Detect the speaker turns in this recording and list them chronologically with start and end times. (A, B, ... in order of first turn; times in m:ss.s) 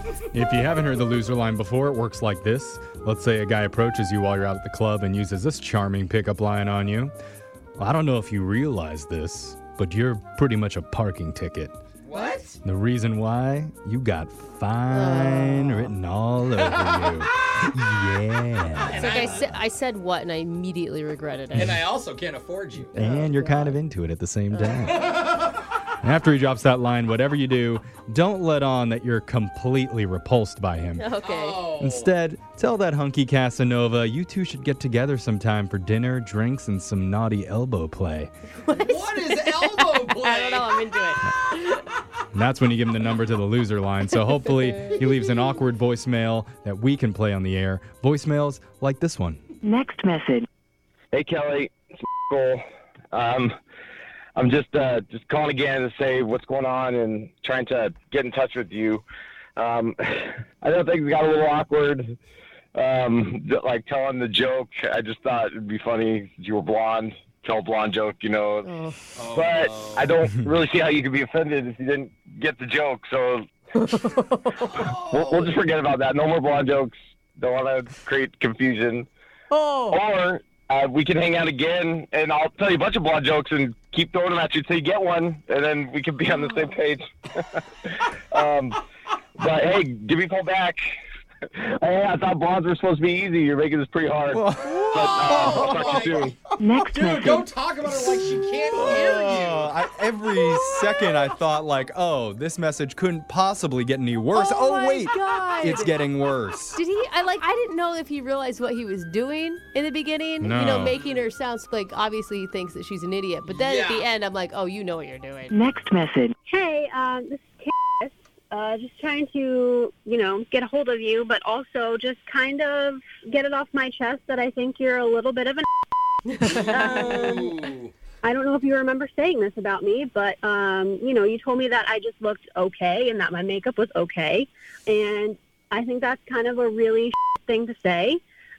0:00.3-0:07.1 A
0:07.8-0:11.8 A
0:12.0-0:12.6 B
0:12.6-0:19.6 A
0:14.9-0:15.9 C
0:16.6-0:17.1 B
0:18.8-0:19.4 B
0:18.9-0:21.8 C
0:21.5-0:21.8 A
0:21.6-0:22.9 B
0:22.9-0:23.8 C
0:23.0-0:25.1 A
0:24.5-0:25.1 C
0:24.9-0:25.6 B
0:26.0-0:31.1 A
0:31.0-0:31.6 C
0:31.3-0:32.1 B
0:31.8-0:38.3 A
0:38.6-0:41.9 C
0:38.7-0:40.7 B
0:42.3-0:49.4 A
0:49.6-0:50.5 D
0:51.1-0:52.6 E
0:53.1-0:53.5 E
0:54.4-0:59.0 E
0:59.6-1:02.2 E
1:02.7-1:08.7 E
1:08.6-1:09.2 C
1:09.2-1:10.1 B
1:09.2-1:13.5 E
1:13.8-1:14.9 C
1:14.8-1:15.5 B
1:14.8-1:19.1 E
1:19.5-1:20.0 C
1:19.9-1:27.0 E
1:28.3-1:28.8 E
1:29.4-1:30.8 E
1:31.6-1:36.4 E
1:34.3-1:36.2 A
1:34.9-1:39.7 B
1:35.4-1:35.7 C
1:36.6-1:37.4 D
1:38.7-1:46.8 A
1:44.3-1:45.9 C
1:46.7-1:55.6 C
1:50.4-1:51.0 A
1:53.5-1:54.1 B
1:55.5-1:56.3 D
1:56.5-2:05.7 F
2:06.3-2:07.5 C
2:06.5-2:07.9 B
2:06.6-2:07.5 F
2:08.2-2:18.2 F